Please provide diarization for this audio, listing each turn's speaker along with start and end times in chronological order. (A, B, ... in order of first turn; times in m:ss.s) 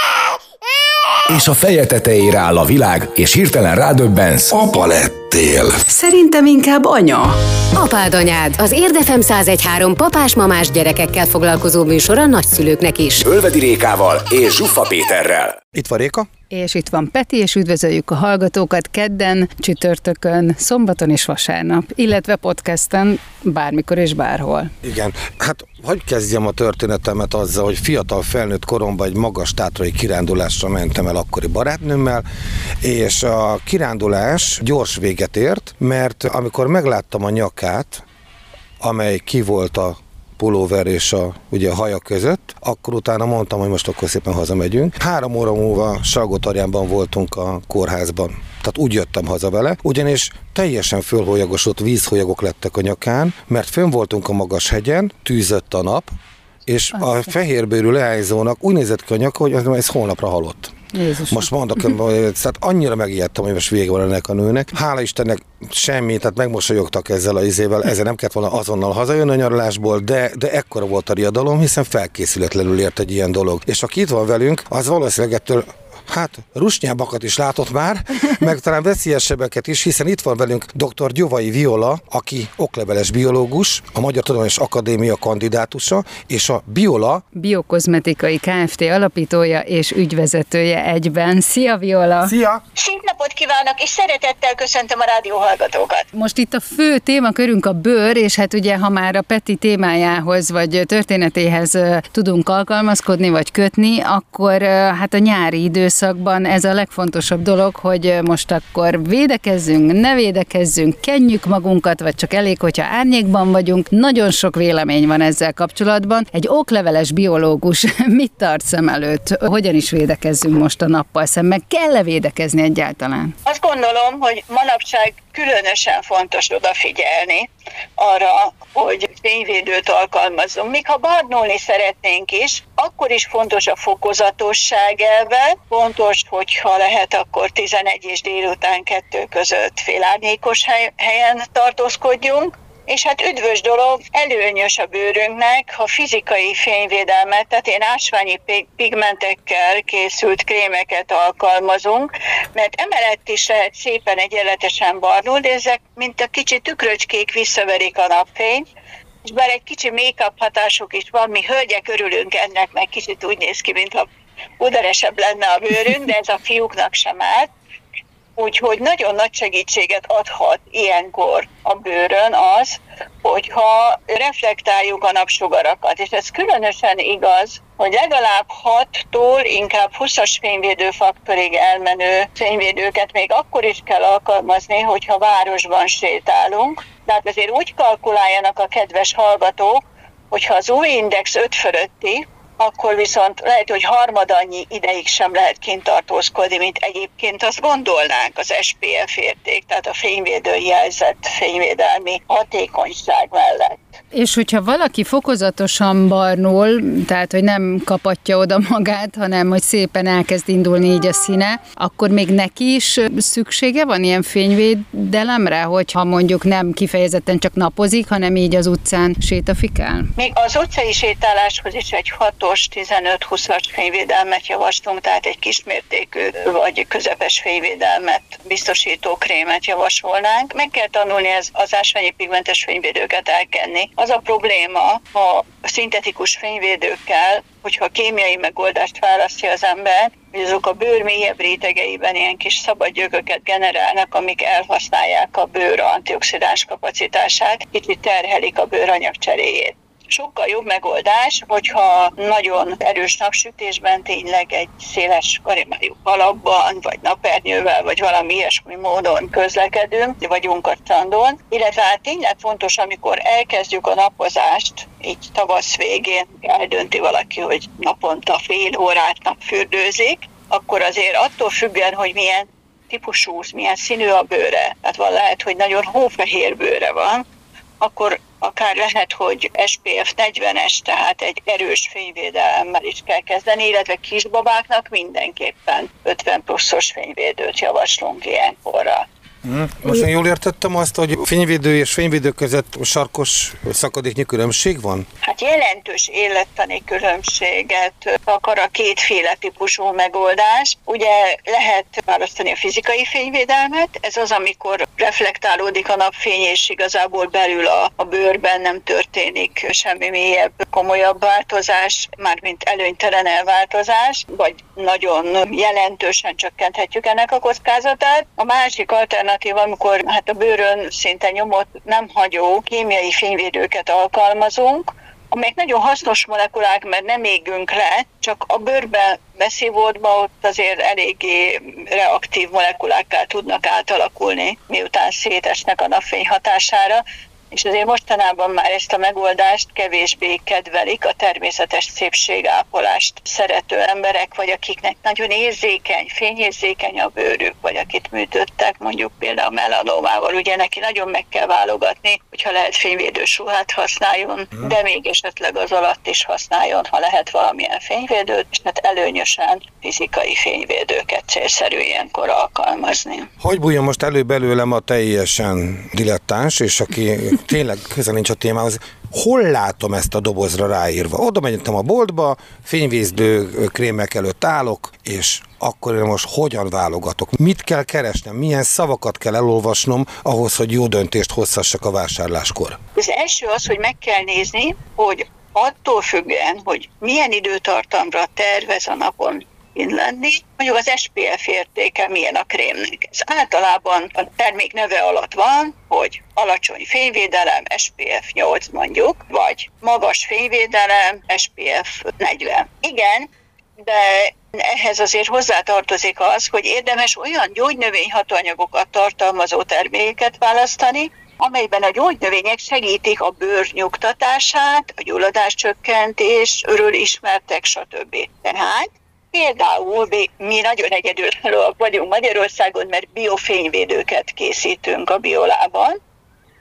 0:01.3-0:04.6 A
0:04.7-0:05.7 B
0:05.8-0:07.4 C
0:07.7-0:13.2 D
0:13.2-0:15.6 A
0:15.7-0:16.3 B
0:16.5-0:24.7 C
0:24.8-0:32.2 B
0:32.8-0:38.0 B
0:38.8-0:56.1 B
0:56.6-1:00.7 B
1:00.9-1:01.5 C
1:01.2-1:27.2 B
1:27.3-1:32.3 C
1:32.2-1:32.6 B
1:32.8-1:36.1 E
1:36.1-2:03.3 C
2:03.4-2:38.7 E
2:39.2-2:44.1 E
2:44.6-2:47.5 E
2:48.4-3:23.9 E
3:24.1-3:40.1 C
3:40.2-4:37.2 E
4:37.8-4:49.0 E
4:49.4-4:55.1 B
4:55.2-6:03.3 E
6:03.4-6:22.8 B
6:22.9-7:06.0 E